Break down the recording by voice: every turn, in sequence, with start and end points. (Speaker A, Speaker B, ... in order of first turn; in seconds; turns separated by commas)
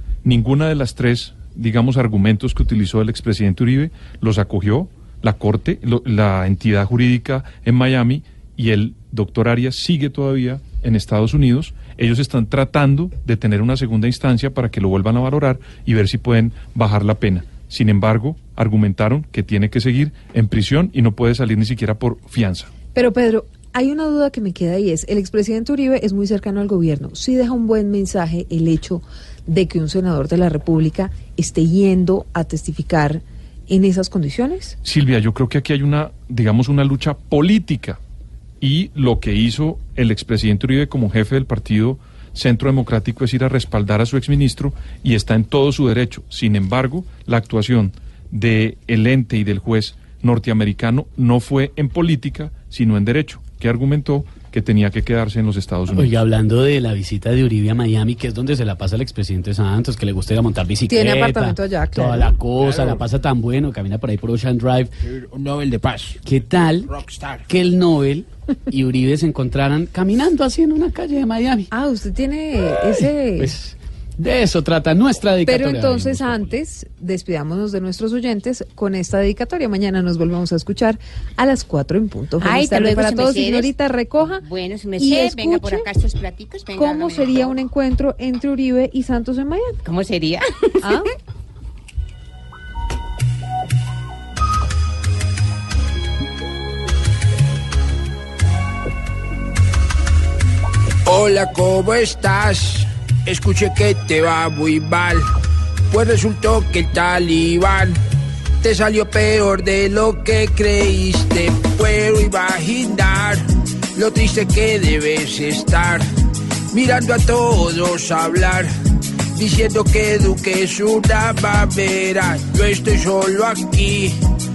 Speaker A: 0.2-22.7, Speaker B: 22.9-34.8, Speaker A: 34.8-38.0, Speaker A: 38.6-56.1, Speaker C: 55.9-64.9, Speaker B: 60.9-62.4, Speaker D: 65.0-66.2, Speaker C: 66.2-66.9, Speaker D: 66.9-67.4, Speaker C: 67.5-71.7, Speaker B: 71.7-73.5, Speaker C: 73.0-76.5, Speaker B: 75.5-84.4, Speaker E: 82.4-87.5, Speaker B: 85.0-85.9, Speaker B: 86.8-89.8, Speaker E: 89.8-91.0, Speaker B: 90.8-91.1, Speaker D: 101.0-105.3, Speaker D: 105.9-108.0, Speaker D: 108.6-113.4, Speaker D: 113.9-116.1, Speaker D: 116.7-118.7, Speaker D: 119.3-124.2